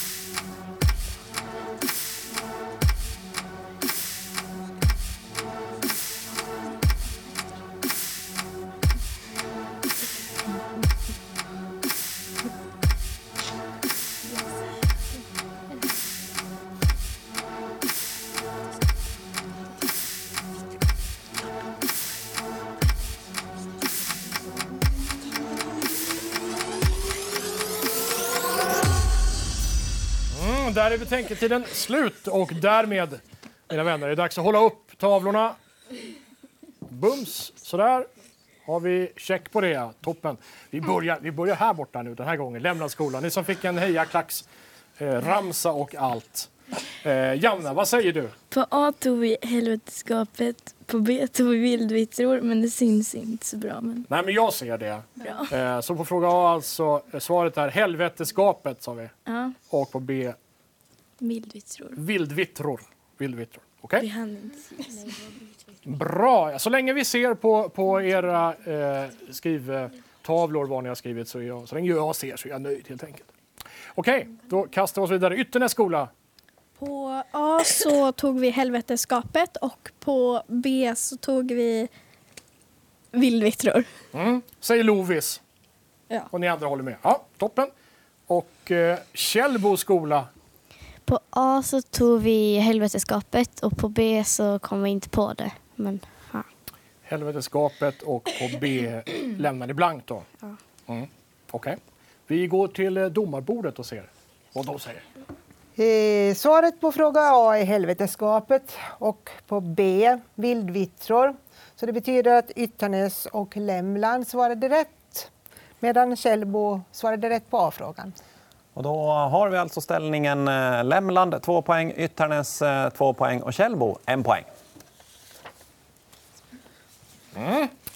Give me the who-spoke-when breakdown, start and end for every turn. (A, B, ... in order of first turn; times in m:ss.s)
0:30.3-0:35.6 A
0:36.9-0:38.1 A
0:38.6-0:44.4 A
0:45.0-0:48.3 A
0:48.5-0:54.1 B
0:54.1-0:59.1 A
0:55.2-0:55.5 B
0:59.2-0:59.6 B
0:59.7-1:00.4 A
1:01.2-1:02.0 B
1:02.0-1:04.1 A
1:04.0-1:05.1 B
1:05.8-1:13.3 A
1:14.0-1:16.1 A
1:16.8-1:21.9 C
1:23.1-1:23.9 C
1:24.1-1:25.4 A
1:26.3-1:27.7 A
1:28.3-1:30.3 A
1:31.0-1:36.5 D
1:37.0-1:40.2 A
1:40.9-1:45.1 A
1:45.8-1:58.1 E
1:58.8-2:04.5 F
2:07.3-2:07.7 A